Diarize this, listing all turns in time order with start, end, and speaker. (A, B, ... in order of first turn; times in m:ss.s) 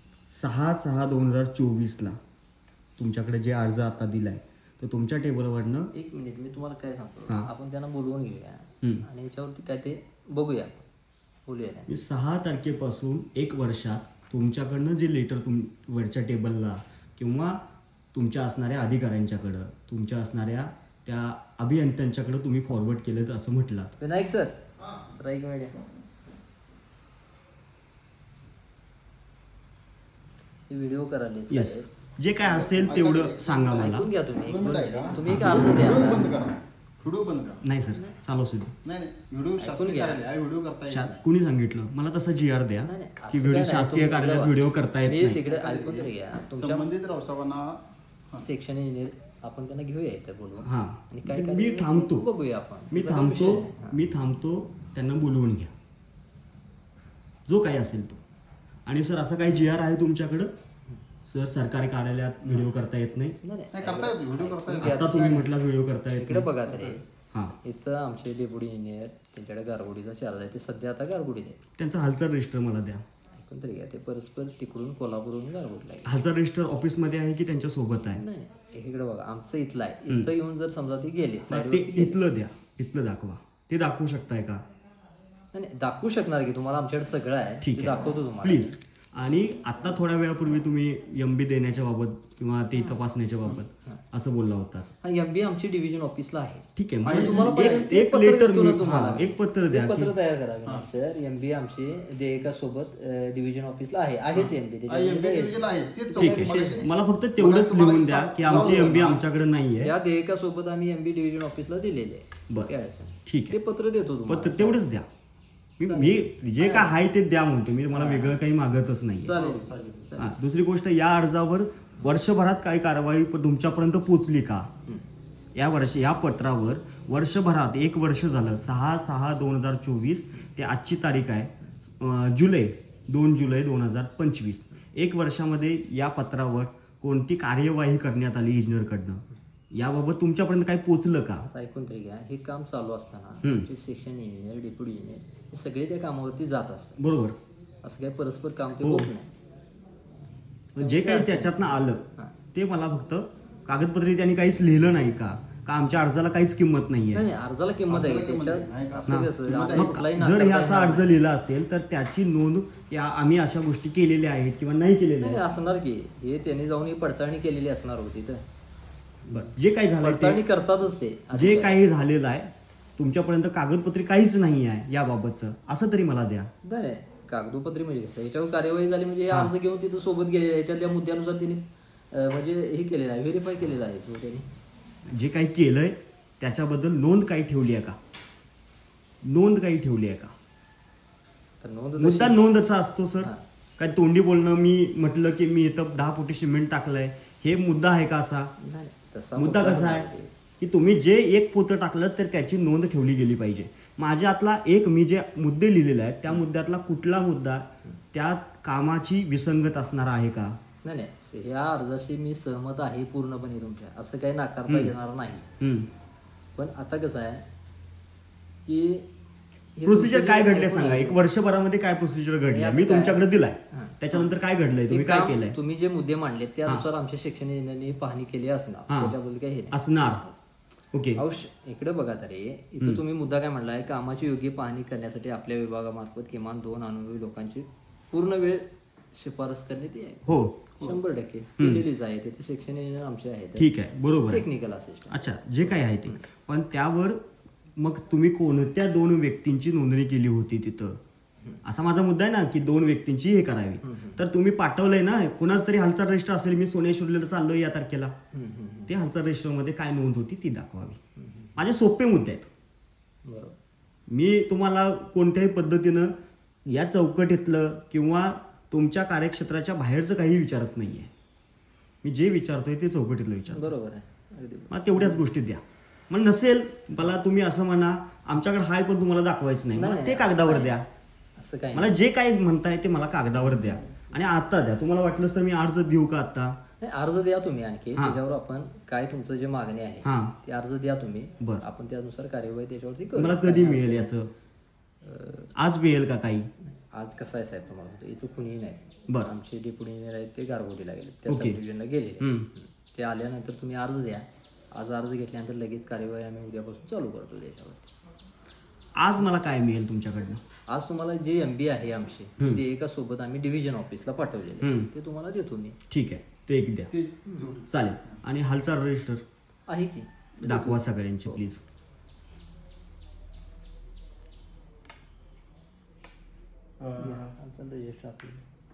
0:00.3-0:02.2 A
0:03.0-0:05.9 A
0:05.9-0:10.9 B
0:11.4-0:11.9 B
0:11.9-0:17.6 A
0:18.1-0:23.9 A
0:24.0-0:25.8 B
0:30.7-0:31.9 B
0:31.5-0:34.1 A
0:32.4-0:37.6 C
0:33.7-0:36.3 B
0:35.2-0:35.8 A
0:37.6-0:38.7 A
0:38.8-0:41.2 C
0:39.6-0:40.2 B
0:40.9-0:45.4 A
0:42.8-0:46.9 B
0:45.4-0:47.8 C
0:48.4-0:54.0 B
0:50.6-0:52.2 A
0:52.9-0:55.7 A
0:57.5-0:58.2 A
0:58.8-1:00.5 A
1:01.2-1:03.4 A
1:03.4-1:05.5 B
1:03.7-1:05.2 C
1:04.7-1:06.5 A
1:06.1-1:11.6 B
1:06.6-1:07.0 C
1:11.8-1:13.0 A
1:13.3-1:16.2 B
1:16.0-1:18.2 A
1:18.1-1:22.2 B
1:21.5-1:24.6 A
1:25.5-1:28.7 B
1:27.6-1:34.9 A
1:35.0-1:46.9 B
1:36.8-1:40.1 A
1:37.0-1:37.8 C
1:44.3-1:49.2 C
1:46.2-1:49.9 A
1:48.4-1:49.2 B
1:49.8-1:54.8 B
1:53.2-1:53.6 A
1:54.3-1:55.1 A
1:55.8-1:59.4 A
1:55.9-1:56.9 B
1:57.9-1:58.4 B
1:59.2-2:00.3 B
1:59.3-2:00.1 C
2:00.2-2:04.7 A
2:05.5-2:21.4 A
2:21.4-2:27.0 B
2:27.0-2:27.4 A
2:27.8-2:29.3 B
2:28.8-2:29.1 A
2:30.8-2:32.0 A
2:30.8-2:32.3 B
2:32.5-2:37.3 A
2:37.1-2:41.2 B
2:37.9-2:40.0 C
2:39.1-2:45.4 A
2:45.2-2:48.4 B
2:49.2-2:51.8 B
2:49.3-2:50.4 A
2:51.3-2:56.5 A
2:56.6-3:04.4 B
3:05.1-3:08.0 A
3:09.2-3:10.3 A
3:11.6-3:12.4 B
3:12.0-3:18.5 A
3:18.6-3:20.3 B
3:19.4-3:20.1 A
3:20.6-3:30.6 A
3:30.8-3:35.5 B
3:35.6-3:35.9 A
3:36.6-3:37.4 B
3:38.6-3:39.1 B
3:39.8-3:41.2 B
3:39.8-3:45.6 A
3:42.4-3:44.3 B
3:44.9-3:50.3 B
3:48.9-3:49.2 A
3:49.7-3:50.2 A
3:50.9-3:51.2 A
3:51.2-4:03.7 B
4:00.2-4:00.6 A
4:01.6-4:01.8 A
4:03.6-4:04.4 A
4:04.3-4:06.2 B
4:05.1-4:07.2 A
4:07.8-4:11.0 A
4:11.6-4:18.1 A
4:13.8-4:14.2 B
4:18.3-4:19.0 B
4:18.9-4:21.0 A
4:21.2-4:21.6 B
4:21.6-4:22.5 A
4:23.2-4:23.6 B
4:24.1-4:26.1 A
4:26.7-4:31.1 A
4:32.0-4:33.7 A
4:33.5-4:35.2 B
4:34.7-4:40.8 A
4:39.7-4:40.8 B
4:41.4-4:42.0 B
4:41.7-4:46.6 A
4:43.4-4:44.1 B
4:46.8-4:54.1 B
4:50.0-4:50.3 A
4:53.1-4:54.3 A
4:55.0-4:55.5 B
4:55.6-4:56.5 A
4:56.9-5:07.9 B
5:01.3-5:01.6 A
5:02.2-5:02.5 A
5:09.0-5:10.4 A
5:10.7-5:15.8 B
5:14.6-5:14.9 A
5:15.9-5:16.9 A
5:16.9-5:17.7 C
5:17.2-5:17.5 B
5:17.7-5:19.2 A
5:19.7-5:21.4 B
5:20.4-5:21.6 A
5:26.8-5:27.3 C
5:27.0-5:28.4 B